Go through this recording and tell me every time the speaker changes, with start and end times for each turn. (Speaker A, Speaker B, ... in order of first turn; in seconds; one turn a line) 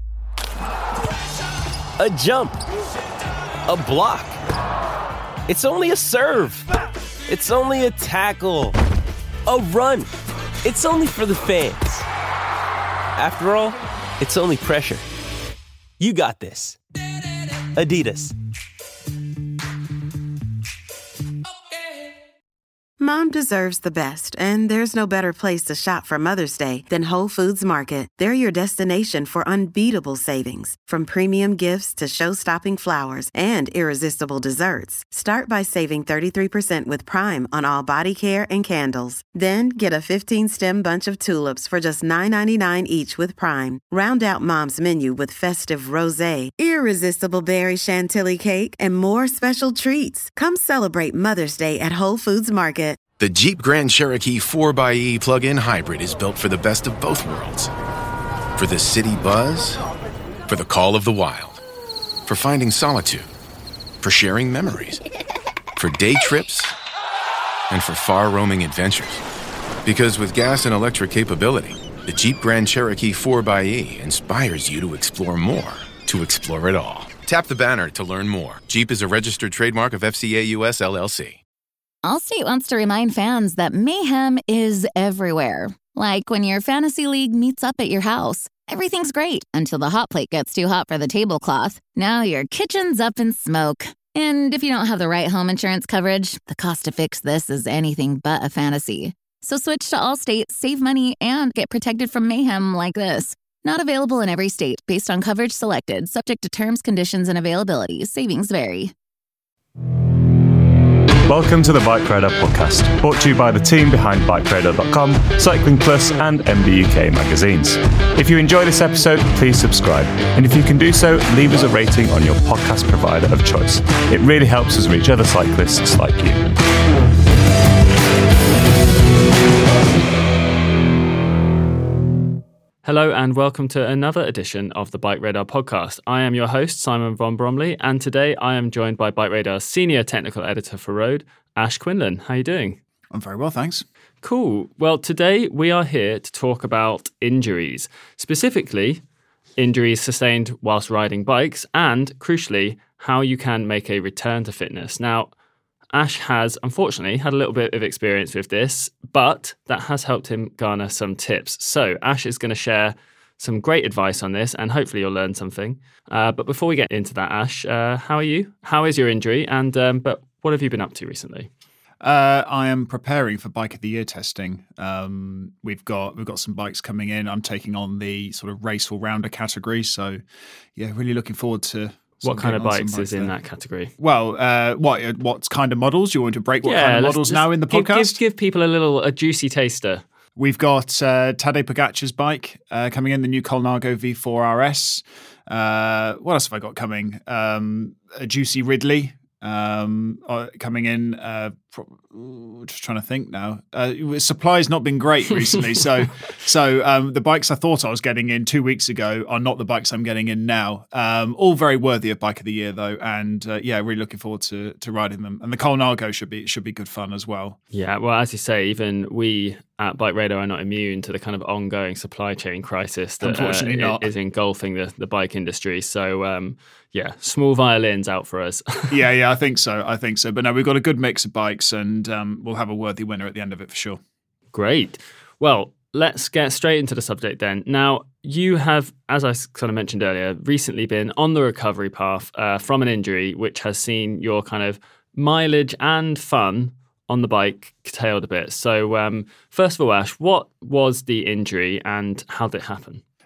Speaker A: 2.0-2.6
Speaker A: 3.6-4.4
Speaker A: 5.5-6.7
Speaker A: 7.3-8.7
Speaker A: 9.4-10.1
Speaker A: 10.6-12.1
Speaker A: 13.2-15.0
Speaker A: 16.0-16.8
Speaker A: 17.7-18.3
Speaker B: 23.0-53.0
Speaker C: 53.2-57.7
Speaker C: 58.5-59.8
Speaker C: 60.5-61.6
Speaker C: 62.3-63.3
Speaker C: 64.0-65.0
Speaker C: 65.8-66.7
Speaker C: 67.7-69.2
Speaker C: 69.8-81.4
Speaker D: 82.0-108.9
Speaker E: 111.2-126.5
Speaker F: 132.8-142.8
Speaker G: 143.1-143.8
Speaker F: 144.2-149.0
Speaker F: 149.6-155.3
Speaker F: 155.9-171.5
Speaker G: 172.0-180.2
Speaker G: 180.8-183.3
Speaker F: 182.2-183.9
Speaker G: 184.0-188.1
Speaker F: 186.6-190.0
Speaker G: 190.3-217.6
Speaker F: 217.7-229.0
Speaker G: 223.2-224.1
Speaker G: 228.9-234.0
Speaker F: 234.5-253.0